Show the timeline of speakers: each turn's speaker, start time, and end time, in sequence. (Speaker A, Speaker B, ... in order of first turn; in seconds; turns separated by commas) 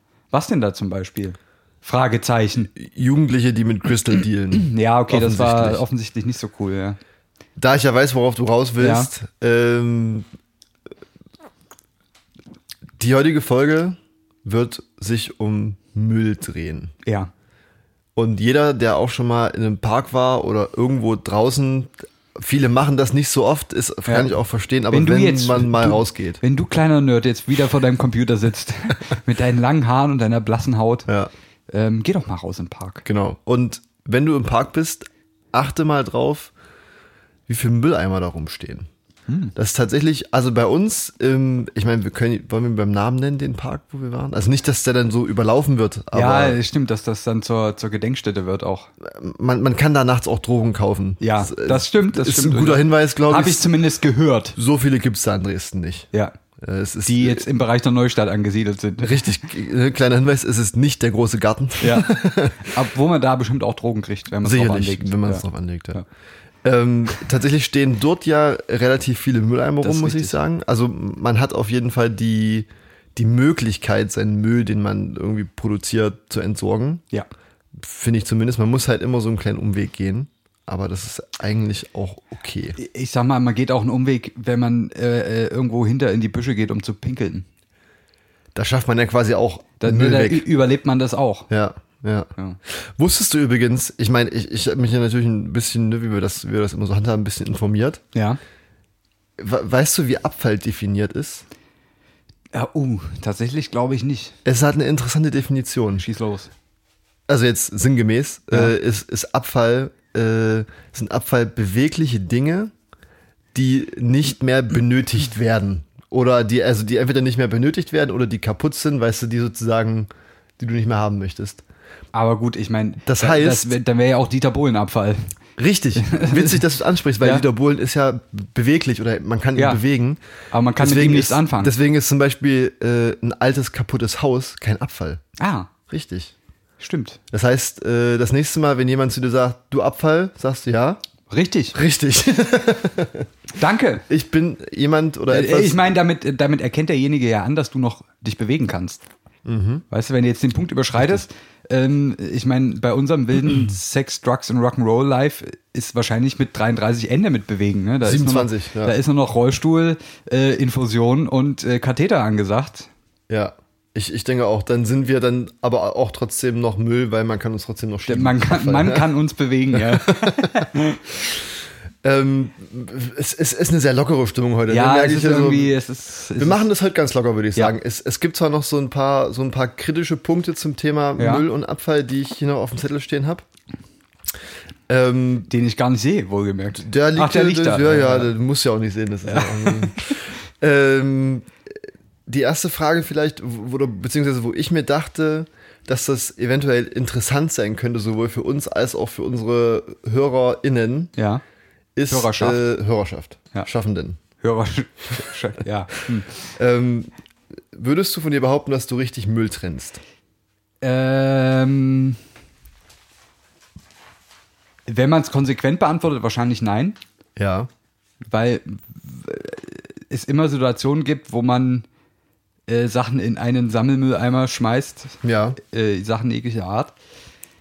Speaker A: 0.3-2.7, Speaker B: 2.8-5.8, Speaker A: 4.5-7.0, Speaker B: 7.6-10.3, Speaker A: 8.8-9.1, Speaker B: 13.0-16.9, Speaker A: 17.1-17.3, Speaker B: 18.2-26.4, Speaker A: 24.9-31.1, Speaker A: 31.7-33.0, Speaker B: 33.1-36.5, Speaker B: 37.5-38.9, Speaker A: 39.3-39.5, Speaker B: 39.5-46.6, Speaker A: 46.1-48.9, Speaker B: 49.0-53.7, Speaker A: 51.2-54.6, Speaker B: 54.6-57.5, Speaker A: 57.0-59.3, Speaker B: 59.0-62.7, Speaker A: 61.8-66.0, Speaker B: 64.4-66.0, Speaker B: 66.6-77.0, Speaker A: 69.8-70.4, Speaker B: 77.8-82.8, Speaker A: 82.8-87.5, Speaker B: 88.5-90.5, Speaker A: 89.8-91.5, Speaker B: 91.5-98.0, Speaker B: 99.4-101.5, Speaker A: 102.5-104.4, Speaker B: 104.5-106.0, Speaker A: 106.0-106.5, Speaker B: 107.3-112.7, Speaker B: 113.5-121.6, Speaker A: 122.1-125.3, Speaker B: 123.0-123.8, Speaker B: 125.6-130.2, Speaker A: 126.0-126.6, Speaker A: 129.6-129.8, Speaker A: 130.5-131.7, Speaker B: 130.8-135.2, Speaker A: 135.4-135.7, Speaker B: 135.9-136.3, Speaker A: 136.8-137.2, Speaker B: 137.3-141.0, Speaker A: 141.3-141.8, Speaker B: 141.7-143.3, Speaker A: 143.6-144.0, Speaker B: 144.1-145.8, Speaker A: 145.3-149.0, Speaker B: 149.5-149.8, Speaker A: 149.9-162.9, Speaker B: 158.0-158.9, Speaker B: 163.3-169.1, Speaker A: 168.1-171.0, Speaker B: 169.7-170.7, Speaker B: 172.0-175.7, Speaker A: 174.7-176.7, Speaker B: 176.4-183.4, Speaker A: 181.2-181.4, Speaker B: 184.9-185.5, Speaker A: 185.5-188.3, Speaker B: 186.8-191.5, Speaker A: 189.3-190.2, Speaker B: 192.3-201.1, Speaker A: 201.2-201.4, Speaker B: 202.0-204.2, Speaker A: 202.1-202.6, Speaker A: 204.4-206.4, Speaker B: 206.6-207.1, Speaker B: 207.7-210.0, Speaker A: 210.8-212.2, Speaker A: 214.9-217.0, Speaker B: 217.4-217.7, Speaker A: 218.3-221.9, Speaker A: 222.7-226.9, Speaker B: 225.2-225.6